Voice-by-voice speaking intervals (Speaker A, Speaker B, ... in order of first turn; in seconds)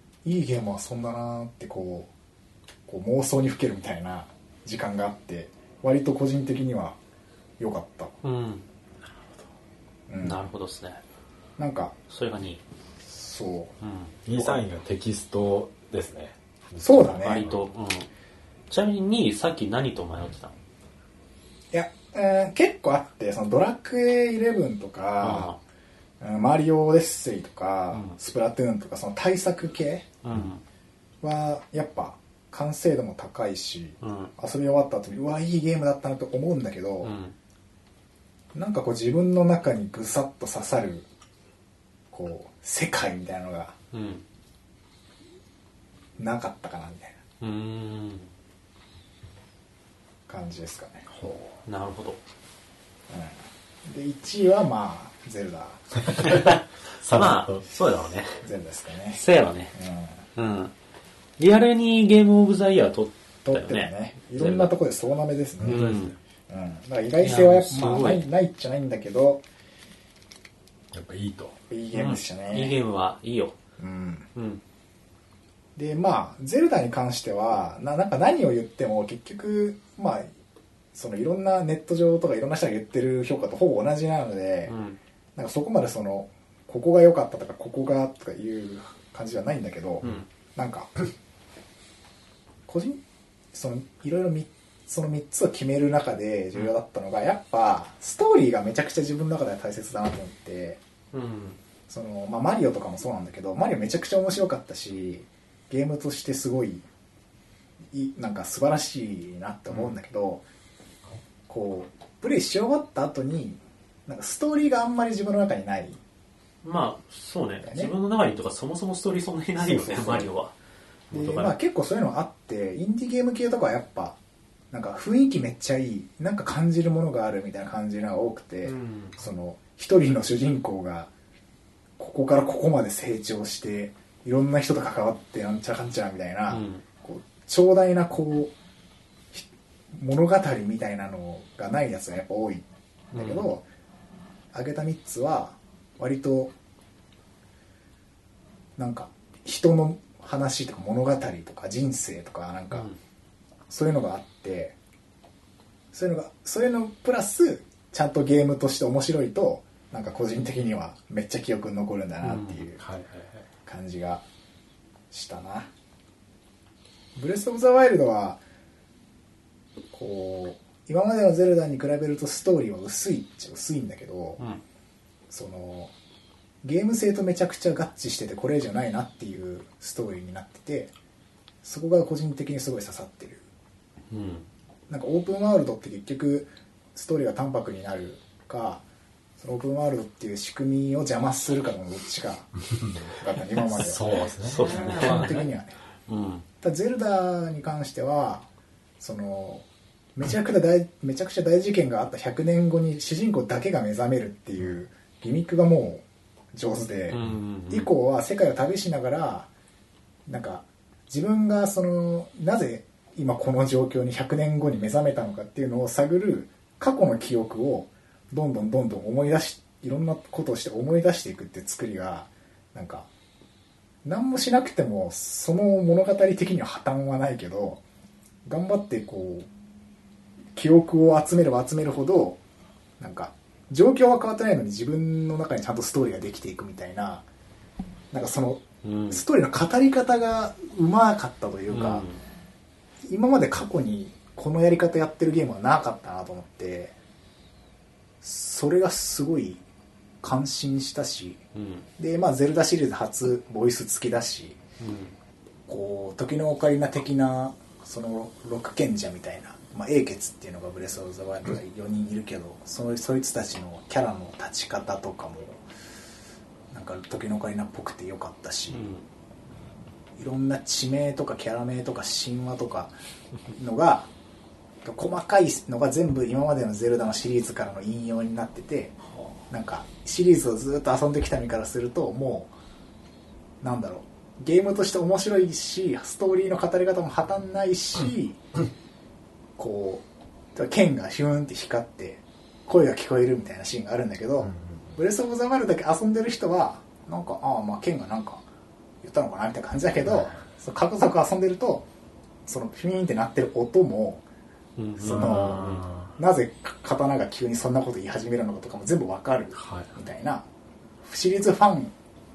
Speaker A: 0.2-2.1, 2.9-7.0, 7.6-8.1, 10.1-10.4, 11.6-11.9, 13.0-13.7, 14.3-14.6, 16.8-17.4, 21.7-25.5, 26.2-30.1, 31.2-37.1, 38.5-41.0, 42.1-43.8, 46.2-47.2, 50.3-51.0, 53.1-55.8, 58.4-59.2, 59.7-60.2, 63.4-65.9, 66.5-69.4, 71.7-72.7, 73.8-74.3, 75.8-80.3, 80.9-84.7, 85.3-90.9, 92.7-93.0, 93.5-100.8, 101.9-106.8, 107.9-110.4, 111.5-116.0, 117.6-117.9, 119.7-120.2, 121.1-124.2, 124.7-131.1, 132.0-138.5, 139.3-143.6, 144.5-146.5, 148.8-152.9, 153.7-154.8, 155.9-162.8, 163.7-164.2, 165.1-165.7, 167.2-168.4, 169.9-174.4, 175.3-175.9, 176.6-180.9, 181.6-183.4, 184.9-188.8, 189.4-192.5, 193.1-195.8, 196.6-198.4, 199.0-207.2, 207.7-209.5, 210.3-223.1, 224.0-227.8, 228.4-229.5, 230.5-232.4, 233.0-237.2, 238.1-242.1, 243.1-246.9, 248.2-249.6, 250.2-251.4, 252.0-254.6, 255.7-265.6, 266.7-268.8, 270.2-272.9, 273.5-274.1, 274.8-278.9, 279.5-282.5, 283.6-288.4, 289.6-298.4, 299.0-301.9, 302.4-304.2, 305.0-310.4, 311.0-311.9
Speaker B: 8.2-8.6, 10.2-11.0, 12.1-12.6, 13.8-14.2, 17.2-18.1, 18.7-20.5, 25.2-25.6, 27.9-28.2, 30.2-30.6, 34.0-34.3, 37.0-37.3, 43.9-44.2, 47.4-48.3, 51.6-52.2, 56.2-58.4, 59.1-59.7, 60.4-60.7, 61.4-64.7, 65.6-66.1, 67.2-68.2, 71.9-73.6, 74.3-74.6, 84.7-85.0, 101.1-101.6, 116.6-120.5, 121.1-121.5, 128.6-129.2, 136.5-136.8, 143.1-143.5, 152.7-153.0, 162.2-162.6, 174.4-174.6, 184.1-184.4, 194.4-195.5, 196.1-196.4, 207.1-207.9, 238.8-239.2, 241.7-242.2, 251.5-251.9, 254.8-255.1, 268.7-269.0, 304.8-305.9
Speaker C: 14.2-17.6, 51.1-51.6, 56.0-56.5, 57.0-57.6, 65.6-66.1, 70.9-71.5, 162.8-163.4, 193.6-195.4, 294.4-294.9, 300.0-300.4, 305.0-306.1, 309.6-309.9